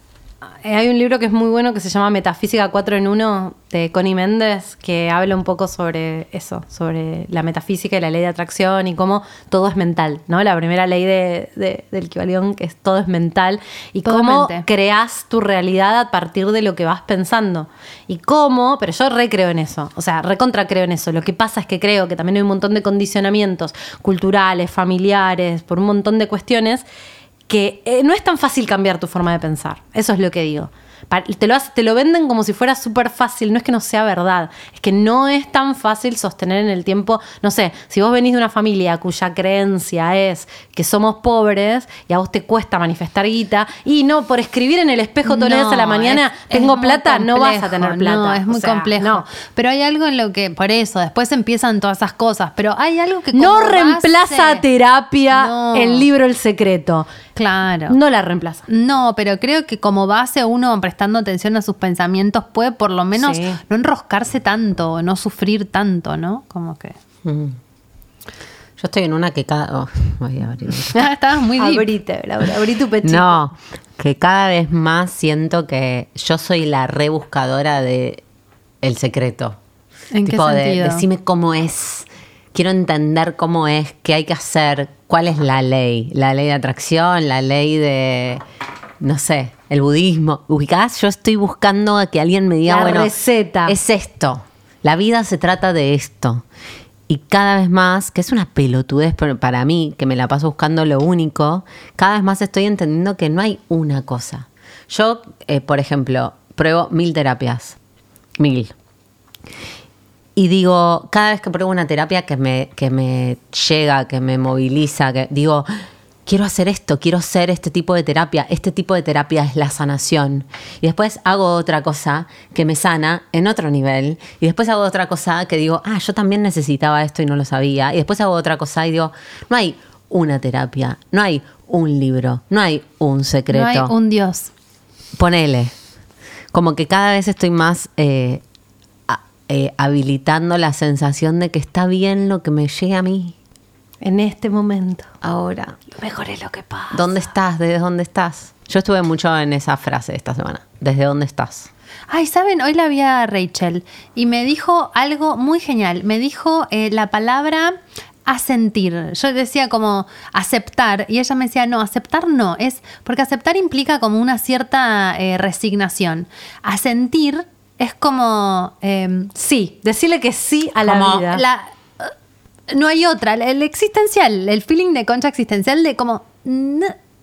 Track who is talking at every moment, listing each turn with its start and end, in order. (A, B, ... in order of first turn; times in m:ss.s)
0:00.6-0:26.8 A
0:14.0-0:14.6 B
0:27.5-0:49.2 A
0:45.2-0:54.6 B
0:53.3-0:57.1 A
0:55.3-0:56.1 B
0:57.4-0:58.0 B
0:57.9-0:58.7 A
0:58.7-1:07.0 B
1:03.1-1:03.6 A
1:07.2-1:07.6 C
1:08.8-1:11.0 C
1:10.9-1:11.9 B
1:11.6-1:13.4 A
1:13.0-1:18.2 C
1:18.8-1:19.6 C
1:20.1-1:21.0 B
1:20.2-1:28.4 C
1:29.0-1:33.1 C
1:32.7-1:33.8 A
1:33.6-1:36.4 C
1:37.1-1:47.8 C
1:48.4-1:48.7 C
1:50.4-1:55.7 C
1:56.2-2:13.9 C
2:13.5-2:14.5 B
2:15.2-2:15.7 C
2:16.5-2:18.4 C
2:19.1-2:23.3 C
2:24.0-2:25.1 A
2:25.2-2:25.8 C
2:25.9-2:27.2 A
2:26.9-2:31.7 C
2:32.1-2:49.3 B
2:49.3-2:51.4 A
2:50.8-2:51.3 C
2:51.3-2:52.1 B
2:52.7-2:57.0 B